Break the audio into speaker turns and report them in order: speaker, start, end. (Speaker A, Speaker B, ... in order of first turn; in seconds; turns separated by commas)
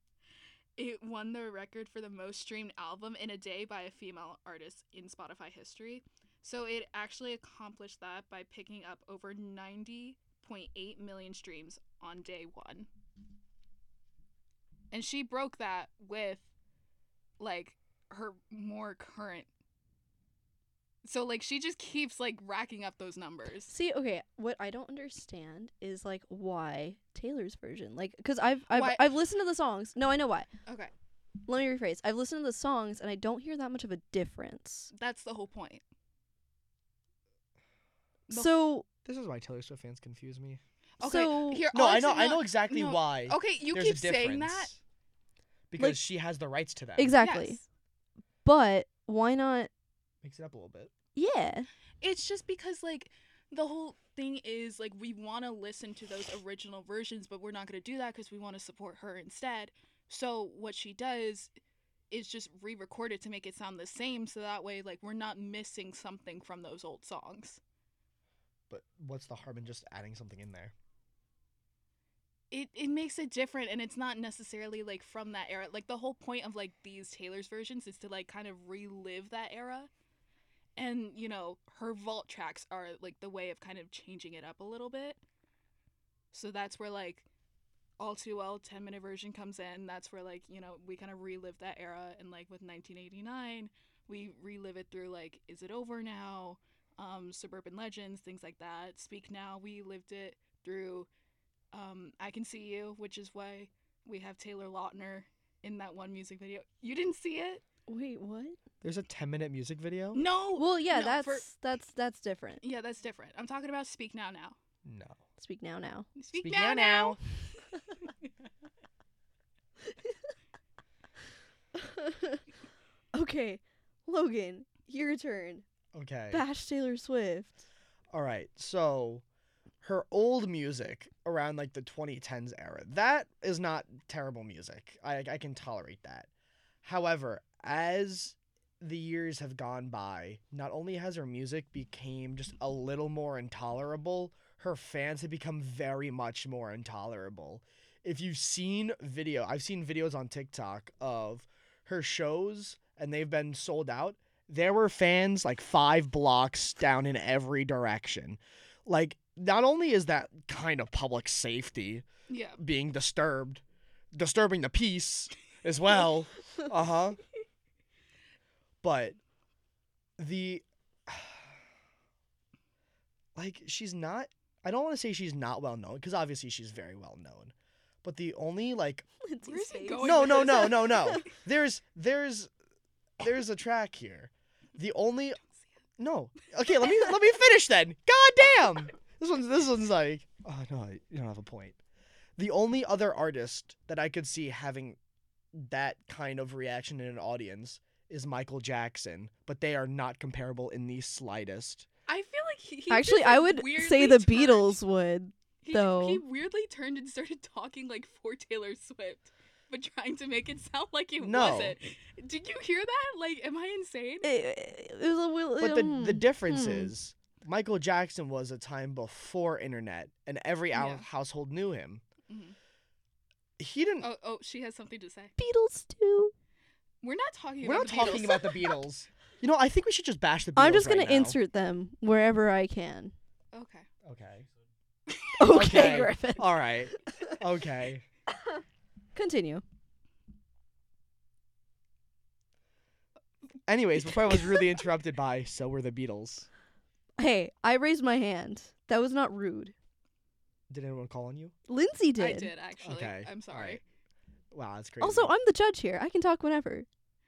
Speaker A: 0.8-12.9, Speaker A: 14.9-16.5, Speaker A: 17.4-19.5, Speaker A: 21.0-23.8, Speaker B: 23.7-30.5, Speaker A: 28.7-29.1, Speaker A: 30.6-30.9, Speaker B: 31.4-34.9, Speaker A: 34.9-35.8, Speaker A: 38.3-38.5, Speaker B: 38.3-38.8, Speaker C: 39.0-40.6, Speaker A: 41.0-44.7, Speaker B: 41.0-41.6, Speaker C: 41.7-44.8, Speaker C: 45.7-47.1, Speaker B: 47.0-47.6, Speaker A: 47.2-47.6, Speaker B: 48.4-49.7, Speaker C: 50.2-50.9, Speaker B: 51.1-51.7, Speaker A: 52.0-61.5, Speaker A: 62.1-67.6, Speaker C: 68.7-70.7, Speaker A: 72.5-79.9, Speaker A: 80.8-85.2, Speaker A: 86.3-87.2, Speaker A: 88.0-101.1, Speaker A: 101.7-107.6, Speaker B: 107.9-108.6, Speaker C: 108.8-110.2, Speaker A: 110.1-111.5, Speaker B: 110.5-112.6, Speaker A: 112.6-114.5, Speaker C: 114.8-115.2, Speaker B: 115.4-116.1, Speaker A: 116.2-117.2, Speaker C: 116.3-117.2, Speaker B: 121.8-122.4, Speaker B: 123.1-125.6, Speaker C: 125.9-126.4, Speaker B: 126.3-127.6, Speaker C: 128.1-129.2, Speaker C: 129.8-136.3, Speaker C: 136.8-162.0, Speaker A: 162.3-162.6, Speaker C: 162.6-167.2, Speaker C: 168.8-169.2, Speaker C: 170.2-171.4, Speaker C: 173.3-177.5, Speaker C: 178.0-179.1, Speaker B: 179.2-181.2, Speaker A: 179.4-181.3, Speaker C: 180.0-182.5, Speaker C: 183.2-185.4, Speaker C: 186.0-191.8, Speaker C: 192.4-195.0, Speaker C: 195.5-201.9, Speaker A: 202.1-204.8, Speaker B: 202.9-206.2, Speaker A: 205.6-214.2, Speaker C: 211.2-211.8, Speaker B: 214.2-216.9, Speaker C: 215.6-222.0, Speaker A: 220.7-221.1, Speaker A: 222.3-222.6, Speaker C: 223.6-224.1, Speaker A: 224.0-225.3, Speaker B: 225.4-226.3, Speaker A: 227.0-228.7, Speaker C: 227.6-231.4, Speaker B: 230.6-233.1, Speaker A: 233.5-233.9, Speaker C: 234.0-234.4, Speaker B: 235.4-237.3, Speaker C: 235.5-238.0, Speaker B: 239.1-239.6, Speaker C: 243.7-246.5, Speaker B: 247.2-249.7, Speaker C: 250.7-251.5, Speaker B: 251.7-252.5, Speaker A: 252.2-253.8, Speaker C: 252.8-253.8, Speaker C: 254.5-255.3, Speaker B: 255.0-256.9